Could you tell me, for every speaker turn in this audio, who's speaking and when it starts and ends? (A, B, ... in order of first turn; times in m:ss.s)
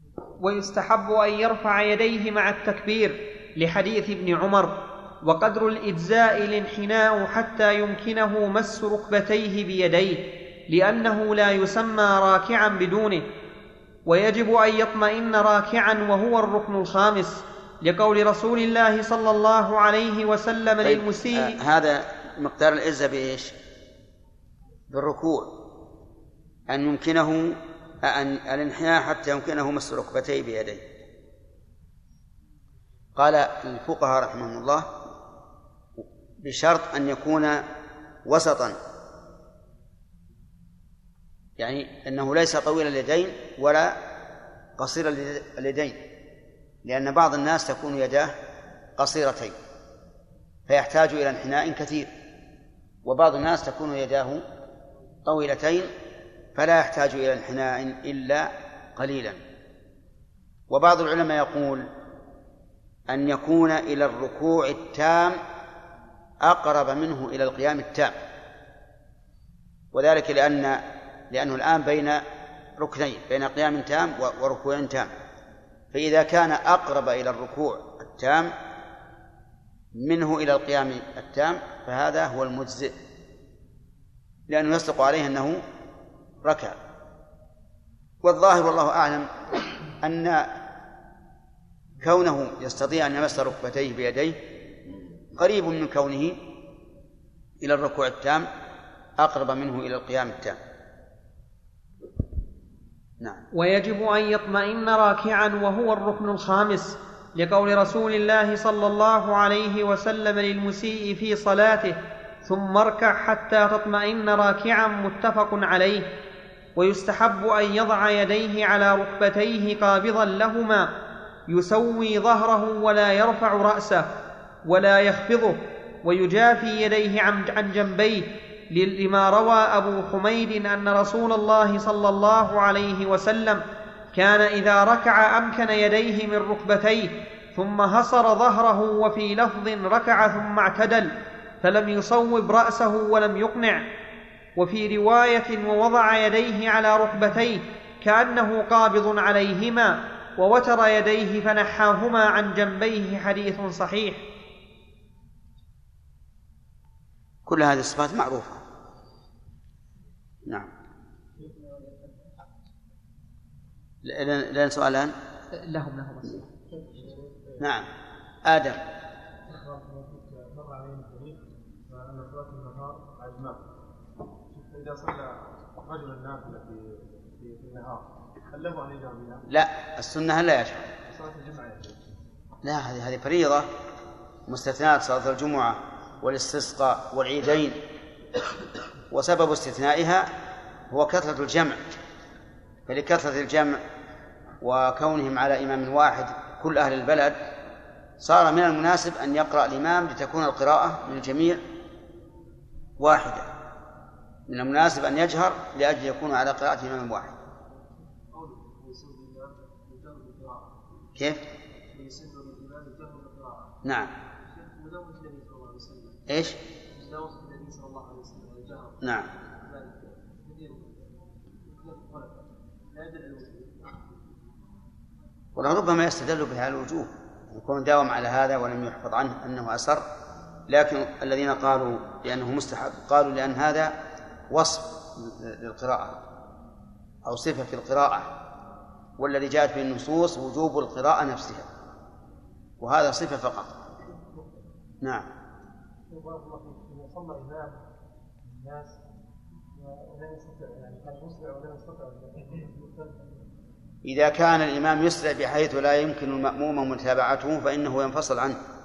0:00.4-0:13.3 A
0:14.1-0:21.6 A
0:20.8-0:23.6 B
0:24.9-0:25.5 B
0:26.7-0:30.8 B
0:33.2-0:34.9 B
0:36.4-0:37.7 B
0:38.3-0:38.8 B
0:41.6-0:44.0 B
0:44.8-0:46.0 B
0:46.8-0:48.3 B
0:49.0-0:49.6 B
0:50.7-0:52.1 B
0:53.0-0:54.4 B
0:55.3-0:55.9 B
0:56.6-0:59.4 B
1:00.7-1:01.9 B
1:03.1-1:05.4 B
1:06.4-1:08.2 B
1:09.9-1:12.2 B
1:12.8-1:15.1 B
1:15.9-1:18.5 B
1:20.0-1:23.0 B
1:24.5-1:25.6 B
1:26.4-1:26.8 B
1:28.2-1:29.3 B
1:30.0-1:30.5 B
1:32.0-1:34.4 B
1:35.3-1:36.4 B
1:37.6-1:38.5 B
1:39.2-1:40.6 B
1:43.5-1:56.1 A
1:56.8-2:00.9 A
2:01.5-2:04.1 A
2:04.7-2:13.6 A
2:14.1-2:21.1 A
2:21.6-2:23.8 A
2:24.6-2:34.2 A
2:37.5-2:38.6 B
2:44.0-2:45.1 B
2:45.5-2:46.5 A
2:46.9-2:47.6 C
2:47.6-2:47.9 B
2:48.5-2:48.8 B
2:49.5-2:51.4 C
2:51.9-2:53.6 C
2:54.6-2:55.3 C
2:55.8-2:59.4 C
2:59.5-3:00.9 B
3:01.1-3:02.1 C
3:02.6-3:03.7 B
3:04.5-3:07.8 B
3:09.1-3:10.3 B
3:10.9-3:11.8 B
3:12.9-3:13.8 B
3:14.6-3:17.4 B
3:18.2-3:21.6 B
3:23.0-3:23.5 B
3:24.5-3:27.4 B
3:28.3-3:30.7 C
3:31.2-3:31.4 B
3:31.9-3:33.7 C
3:33.8-3:34.1 B
3:34.5-3:36.2 C
3:36.3-3:36.6 B
3:37.0-3:39.0 C
3:39.0-3:39.3 B
3:41.8-3:42.4 C
3:42.9-3:43.8 C
3:45.6-3:50.0 B
3:50.7-3:53.9 B
3:54.5-3:56.2 B
3:57.2-3:58.3 B
3:59.2-4:01.7 B
4:02.8-4:03.8 B
4:05.0-4:05.3 B
4:06.1-4:07.8 C
4:08.5-4:08.9 C
4:10.1-4:12.8 C
4:14.0-4:18.6 B